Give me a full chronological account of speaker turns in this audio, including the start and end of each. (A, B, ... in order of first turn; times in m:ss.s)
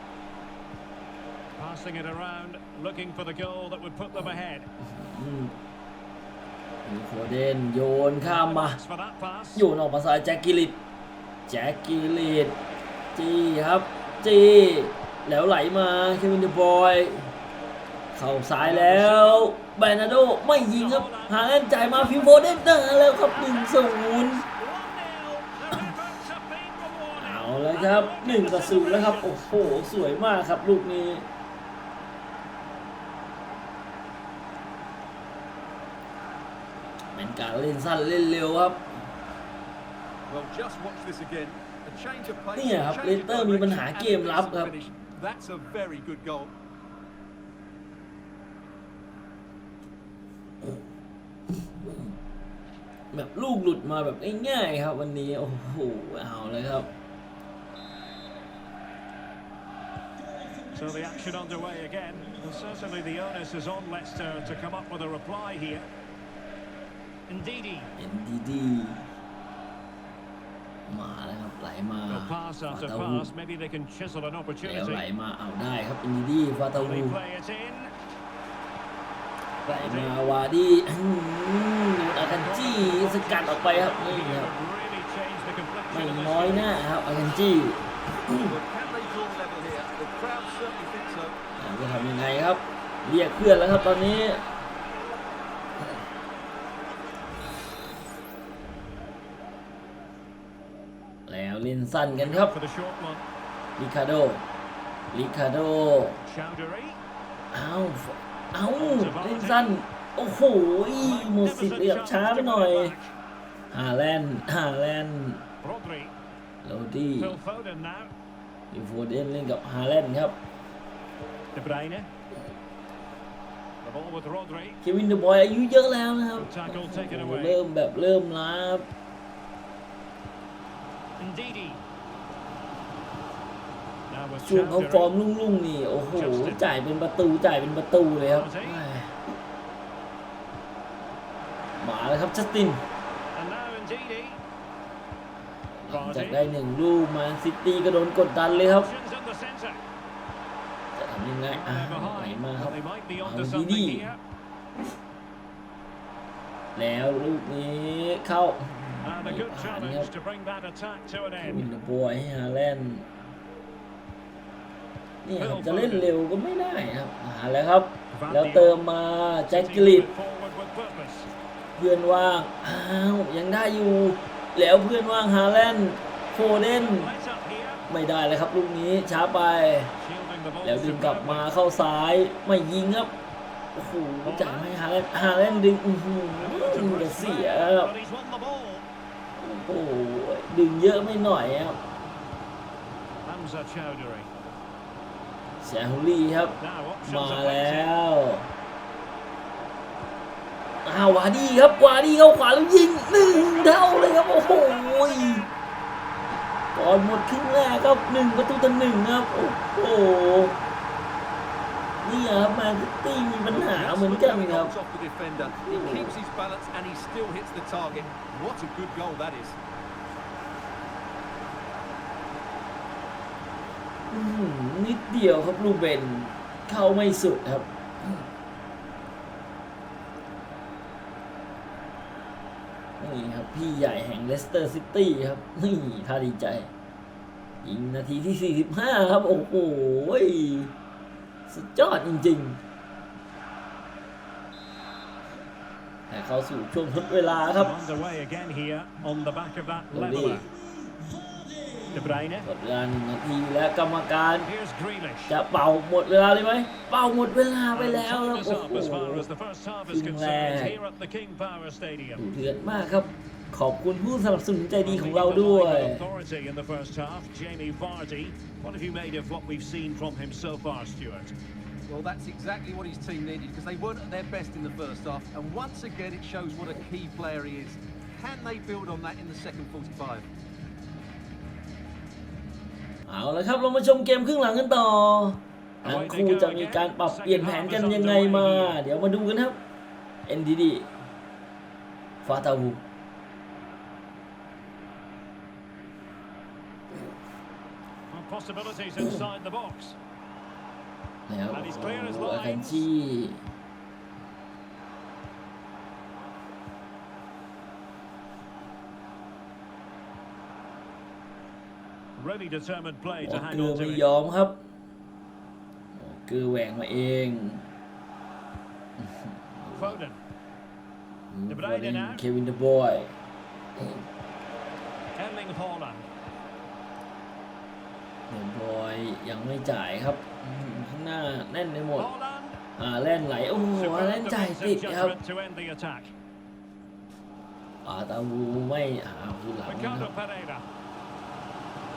0:01.6-0:04.7 A
0:04.2-0:05.6 B
0:06.8-0:08.8 B
0:08.2-0:09.7 A
0:09.6-0:10.8 B
0:11.5-0:12.6 B
0:13.2-0:17.3 B
0:18.1-0:24.4 B
0:18.6-0:19.5 A
0:20.5-0:29.5 A
0:27.2-0:31.3 B
0:37.1-0:39.1 B
0:40.3-0:46.5 C
0:42.6-0:44.7 B
0:51.8-0:52.2 B
0:53.1-0:56.9 B
1:00.7-1:05.9 A
1:07.3-1:07.9 A
1:08.0-1:09.0 B
1:10.9-1:13.3 B
1:12.1-1:15.1 A
1:14.6-1:17.2 B
1:16.7-1:17.9 A
1:19.7-1:24.5 B
1:19.7-1:20.2 A
1:22.1-1:26.7 A
1:25.9-1:28.6 B
1:28.5-1:31.4 C
1:31.6-1:34.4 B
1:41.3-1:42.6 B
1:42.1-1:43.2 A
1:43.8-1:44.4 B
1:45.1-1:46.2 B
1:46.2-1:47.0 A
1:47.5-1:53.0 B
1:48.8-1:49.8 A
1:51.0-1:53.2 A
1:53.7-1:55.4 B
1:55.6-1:56.1 A
1:56.6-1:57.4 B
1:57.2-1:58.1 A
1:58.7-2:00.4 B
2:01.5-2:02.1 A
2:03.8-2:04.8 A
2:04.8-2:08.9 B
2:06.4-2:07.6 A
2:11.2-2:11.8 A
2:14.1-2:15.1 A
2:14.4-2:19.2 B
2:16.1-2:16.6 A
2:18.2-2:18.8 A
2:21.8-2:22.8 B
2:23.3-2:24.4 A
2:25.8-2:29.0 B
2:25.9-2:26.6 A
2:28.5-2:29.8 A
2:31.0-2:34.1 B
2:31.5-2:34.2 A
2:36.8-2:40.1 B
2:39.0-2:41.7 A
2:41.4-2:43.1 B
2:45.2-2:50.1 B
2:45.4-2:46.2 A
2:48.1-2:48.9 A
2:49.5-2:51.3 A
2:51.8-2:57.1 B
2:56.7-2:57.9 A
2:57.9-2:59.9 B
3:00.0-3:01.7 A
3:00.6-3:03.1 B
3:03.7-3:07.9 B
3:04.2-3:05.7 A
3:06.4-3:08.9 A
3:09.4-3:11.8 B
3:13.2-3:14.3 A
3:15.6-3:18.5 B
3:16.6-3:17.9 A
3:20.8-3:25.5 B
3:23.2-3:25.5 A
3:26.7-3:30.6 B
3:32.0-3:34.7 B
3:33.4-3:39.6 C
3:35.5-3:36.2 B
3:44.1-3:48.2 B
3:53.0-3:56.7 B
3:57.6-4:00.7 B
4:01.5-4:02.6 B
4:06.1-4:07.8 B
4:07.6-4:10.5 A
4:09.9-4:10.4 B
4:11.4-4:14.5 B
4:11.9-4:12.5 A
4:14.4-4:15.4 A
4:15.3-4:19.3 B
4:17.7-4:22.2 A
4:19.9-4:20.8 B
4:22.2-4:26.1 B
4:24.8-4:31.4 A
4:31.9-4:40.3 C
4:43.1-4:49.6 B
4:45.8-4:48.8 A
4:50.3-4:50.9 B
4:52.2-4:52.8 B
4:58.1-5:00.0 A
5:01.3-5:03.4 B
5:01.5-5:02.9 A
5:12.2-5:14.1 A
5:13.2-5:14.6 B
5:16.0-5:17.7 B
5:19.0-5:20.0 B
5:19.8-5:20.2 A
5:21.3-5:23.1 B
5:21.5-5:22.2 A
5:25.2-5:26.1 A
5:28.3-5:32.1 B
5:32.0-5:32.6 A
5:32.8-5:35.2 B
5:33.8-5:36.1 A
5:37.8-5:40.1 B
5:39.7-5:40.7 A